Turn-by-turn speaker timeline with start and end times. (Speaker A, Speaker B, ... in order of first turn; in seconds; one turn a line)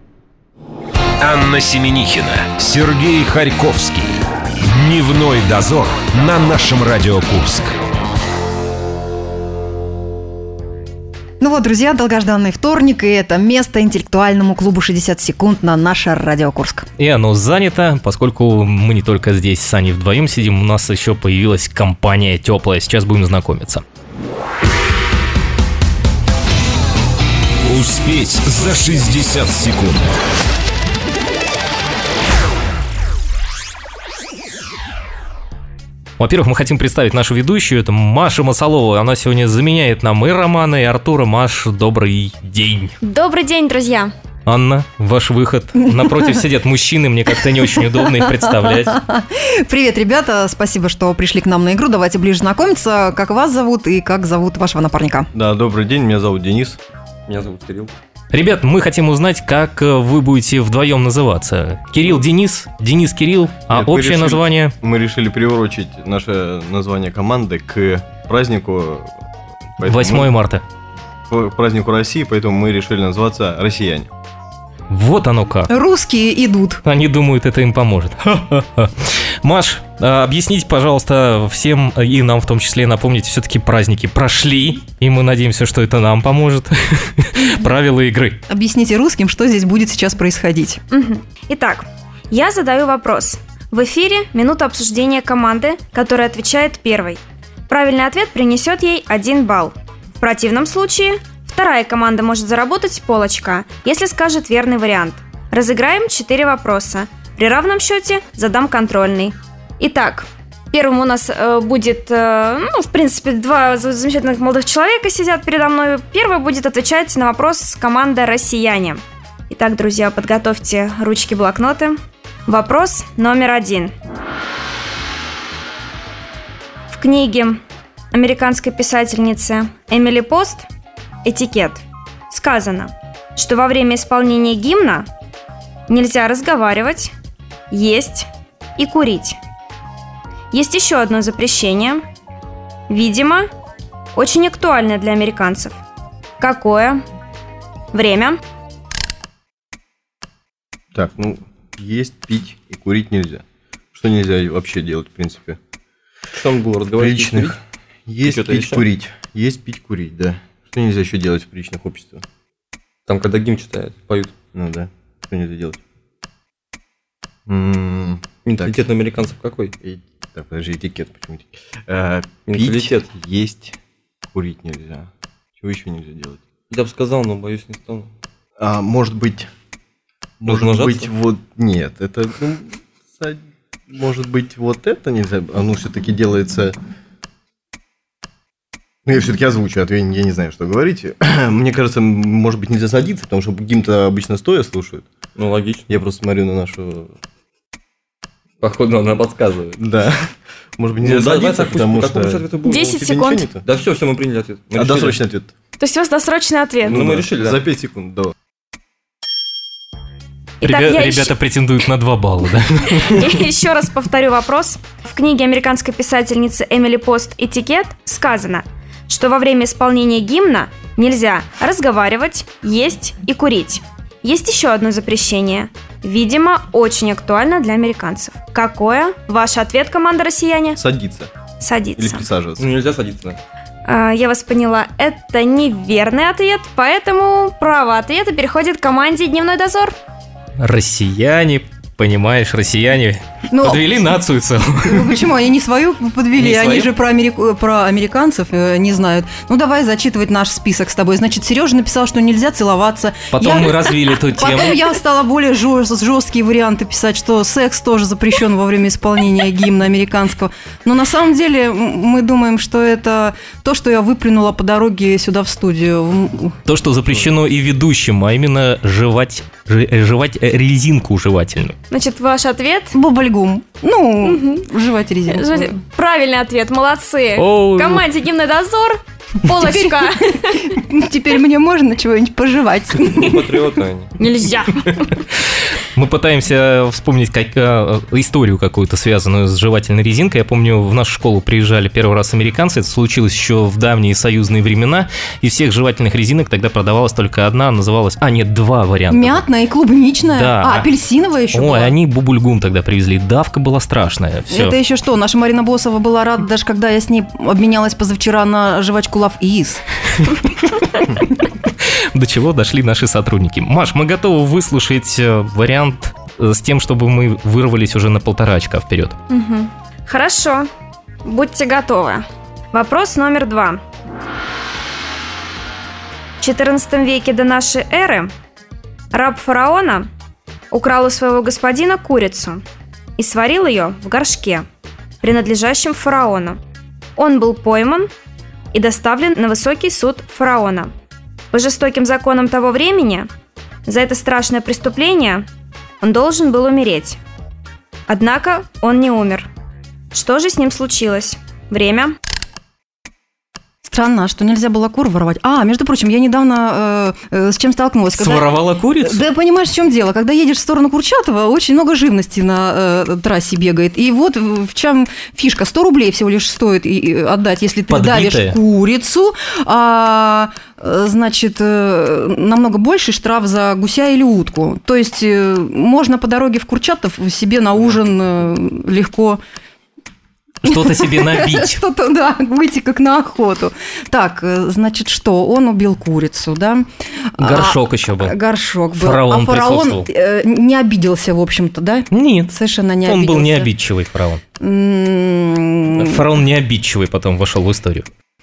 Speaker A: 1.2-7.8
Speaker B: 11.4-16.9
Speaker C: 17.0-23.8
Speaker A: 27.6-30.1
Speaker C: 36.2-43.0
Speaker D: 43.0-44.1
Speaker C: 44.5-49.0
Speaker B: 47.6-55.3
Speaker E: 55.3-56.8
Speaker F: 57.3-57.9
Speaker C: 58.3-64.7
Speaker E: 63.7-69.1
Speaker E: 69.8-70.3
Speaker C: 69.8-70.6
Speaker E: 71.3-74.1
Speaker C: 74.9-75.7
Speaker B: 75.7-76.8
Speaker C: 76.8-88.4
Speaker B: 88.5-90.8
Speaker D: 90.9-122.0
Speaker D: 122.5-123.9
Speaker D: 126.9-127.6
Speaker D: 128.1-130.7
Speaker D: 131.2-135.1
Speaker D: 135.9-137.1
Speaker D: 137.7-139.4
Speaker D: 140.5-142.0
Speaker D: 142.9-143.4
Speaker D: 144.2-145.8
Speaker D: 146.4-147.0
Speaker D: 147.9-148.3
Speaker E: 150.9-153.4
Speaker E: 153.9-155.6
Speaker F: 156.3-157.6
Speaker E: 157.0-162.2
Speaker F: 158.2-158.8
Speaker F: 163.1-164.3
Speaker E: 164.5-165.8
Speaker E: 167.5-168.8
Speaker F: 168.4-169.7
Speaker E: 169.8-173.8
Speaker F: 172.5-173.1
Speaker E: 174.3-176.4
Speaker F: 176.7-178.1
Speaker E: 178.6-179.5
Speaker E: 180.4-186.8
Speaker F: 180.4-181.1
Speaker E: 189.1-195.1
Speaker F: 195.4-195.9
Speaker E: 195.9-197.1
Speaker F: 198.6-199.8
Speaker E: 199.8-200.3
Speaker E: 200.8-203.7
Speaker F: 201.0-202.8
Speaker D: 202.6-203.5
Speaker F: 203.6-205.2
Speaker E: 204.8-205.5
Speaker D: 205.8-207.0
Speaker E: 206.8-208.3
Speaker F: 206.9-207.6
Speaker D: 210.6-211.4
Speaker C: 210.6-213.3
Speaker D: 213.1-230.8
Speaker E: 230.8-231.3
Speaker D: 231.6-232.3
Speaker E: 232.0-232.7
Speaker F: 232.6-233.4
Speaker D: 233.9-239.9
Speaker C: 240.6-245.2
Speaker B: 243.5-244.0
Speaker B: 244.8-266.6
Speaker C: 246.4-246.9
Speaker C: 253.3-254.8
Speaker C: 266.7-271.8
Speaker D: 271.9-272.9
Speaker B: 272.9-275.8
Speaker D: 274.2-274.7
Speaker D: 275.3-280.8
Speaker C: 277.4-278.0
Speaker B: 279.5-283.7
Speaker F: 283.1-284.2
Speaker D: 284.2-285.1
Speaker C: 285.3-299.4
Speaker B: 299.1-302.0
Speaker C: 300.3-300.9
Speaker C: 301.5-304.8
Speaker B: 304.5-309.9
Speaker C: 311.2-319.2
Speaker D: 319.3-320.7
Speaker D: 321.2-323.8
Speaker D: 326.4-328.3
Speaker D: 329.1-330.1
Speaker D: 330.7-332.6
Speaker D: 333.2-334.6
Speaker D: 335.2-336.6
Speaker D: 337.2-338.1
Speaker D: 338.7-340.9
Speaker D: 341.5-343.3
Speaker D: 343.9-345.5
Speaker D: 346.0-347.2
Speaker D: 348.1-349.5
Speaker D: 350.1-352.1
Speaker B: 353.9-379.4
Speaker C: 358.1-359.2
Speaker C: 367.9-368.6
Speaker C: 380.6-381.8
Speaker B: 380.6-386.9
Speaker B: 387.4-393.7
Speaker C: 387.4-388.4
Speaker C: 388.9-390.1
Speaker C: 392.1-394.4
Speaker B: 394.6-396.3
Speaker C: 395.9-398.1